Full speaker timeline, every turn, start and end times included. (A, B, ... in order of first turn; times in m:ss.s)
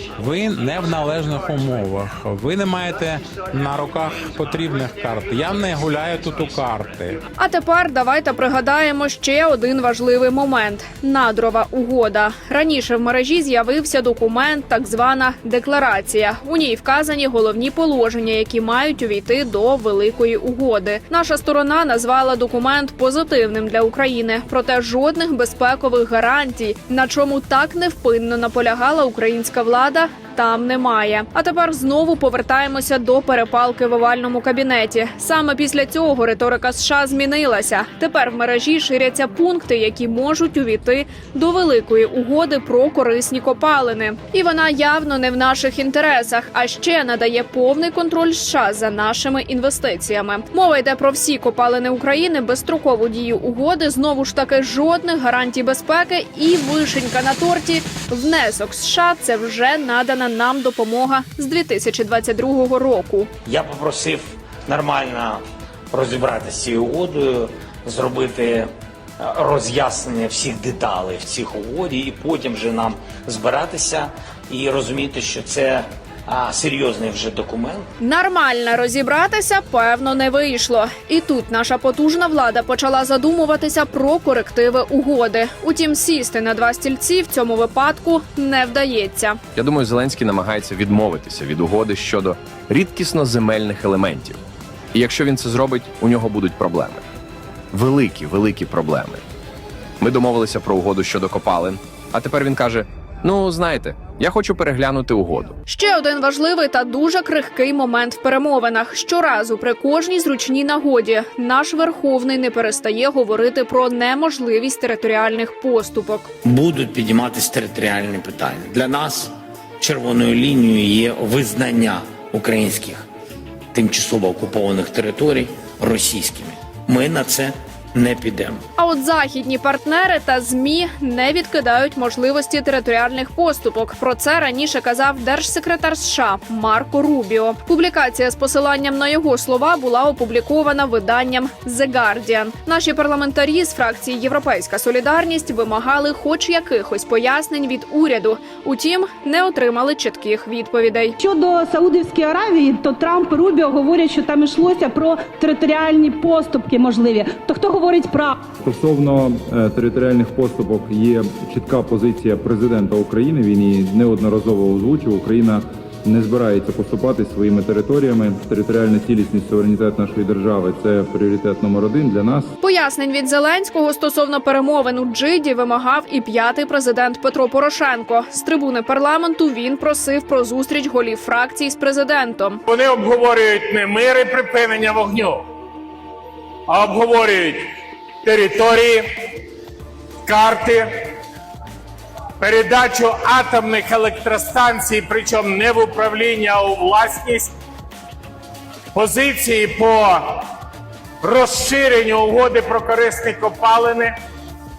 0:00.2-0:07.2 A
0:07.4-1:03.3 B
1:03.4-1:08.7 C
1:09.2-1:17.9 C
1:18.0-1:29.4 B
1:29.5-1:34.4 D
1:34.9-1:37.0 D
1:37.7-1:39.2 D
1:40.0-1:45.6 D
1:45.7-1:56.3 B
1:56.4-2:03.0 C
2:03.7-2:08.6 C
2:08.8-2:31.1 B
2:31.2-2:38.4 E
2:38.6-2:52.5 F
2:52.6-3:02.6 B
3:02.7-3:05.4 G
3:06.7-3:07.7 G
3:08.2-3:09.0 G
3:10.2-3:11.2 G
3:12.4-3:17.5 G
3:18.9-3:20.5 G
3:21.2-3:24.1 G